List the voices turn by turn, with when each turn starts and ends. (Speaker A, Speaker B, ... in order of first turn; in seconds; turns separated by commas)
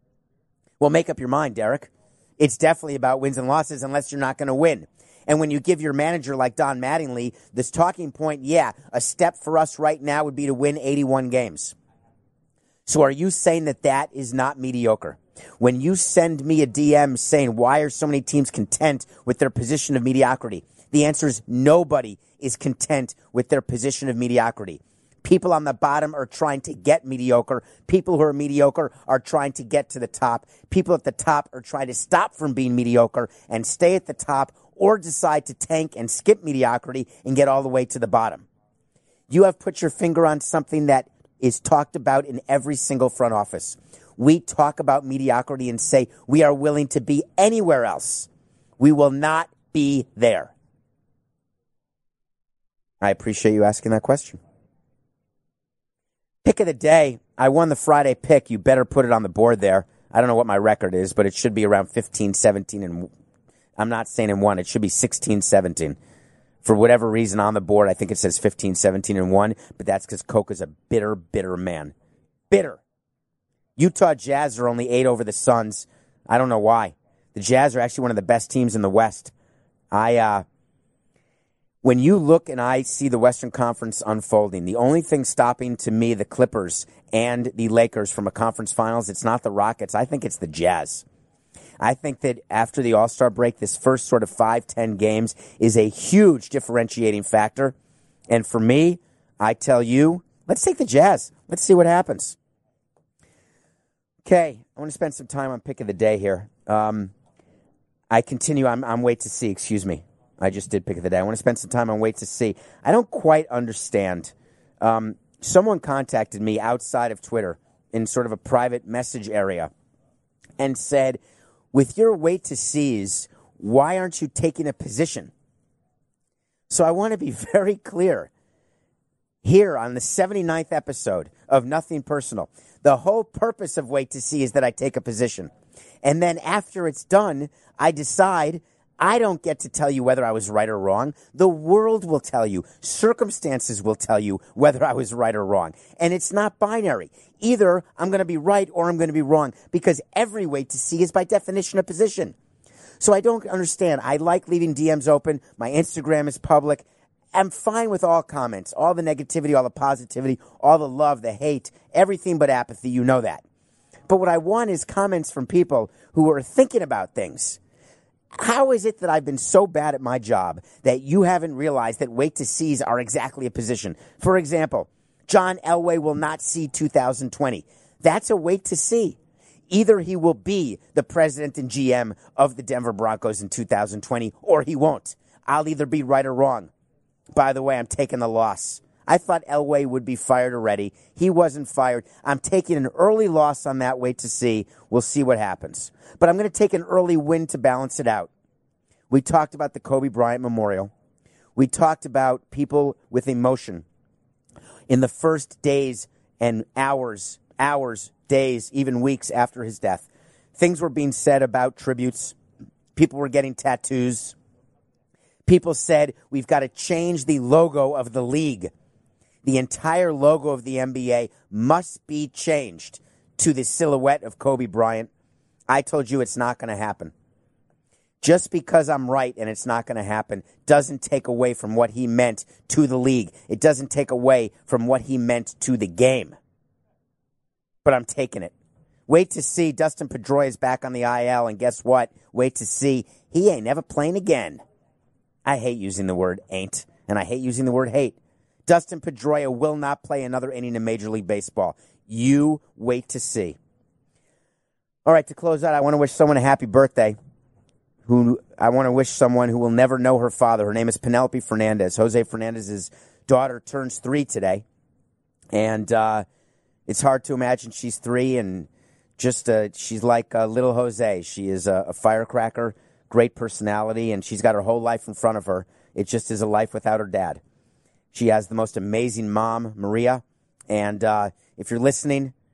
Speaker A: 0.8-11.7, Speaker A: 12.9-38.4, Speaker A: 39.3-48.3, Speaker A: 48.8-50.5, Speaker A: 53.0-54.4, Speaker A: 56.4-63.1, Speaker A: 63.8-66.0, Speaker A: 66.6-71.9, Speaker A: 72.5-72.8, Speaker A: 73.8-79.3, Speaker A: 79.9-80.4, Speaker A: 81.8-91.0, Speaker A: 91.8-97.7, Speaker A: 98.3-102.4, Speaker A: 104.2-107.1, Speaker A: 108.1-119.7, Speaker A: 120.6-121.2, Speaker A: 121.7-125.3, Speaker A: 126.7-128.3, Speaker A: 129.4-135.5, Speaker A: 136.0-152.3, Speaker A: 153.0-163.4, Speaker A: 164.1-167.6, Speaker A: 168.3-179.2, Speaker A: 179.7-186.7, Speaker A: 187.3-198.3, Speaker A: 199.1-200.9, Speaker A: 201.6-203.8, Speaker A: 204.9-212.3, Speaker A: 212.9-214.3, Speaker A: 215.4-218.7, Speaker A: 219.4-225.1, Speaker A: 225.7-227.1, Speaker A: 228.2-236.3, Speaker A: 237.8-238.5, Speaker A: 239.1-244.6, Speaker A: 245.4-253.6, Speaker A: 255.1-257.2, Speaker A: 258.1-264.6, Speaker A: 265.5-266.2, Speaker A: 266.9-277.4, Speaker A: 278.1-282.3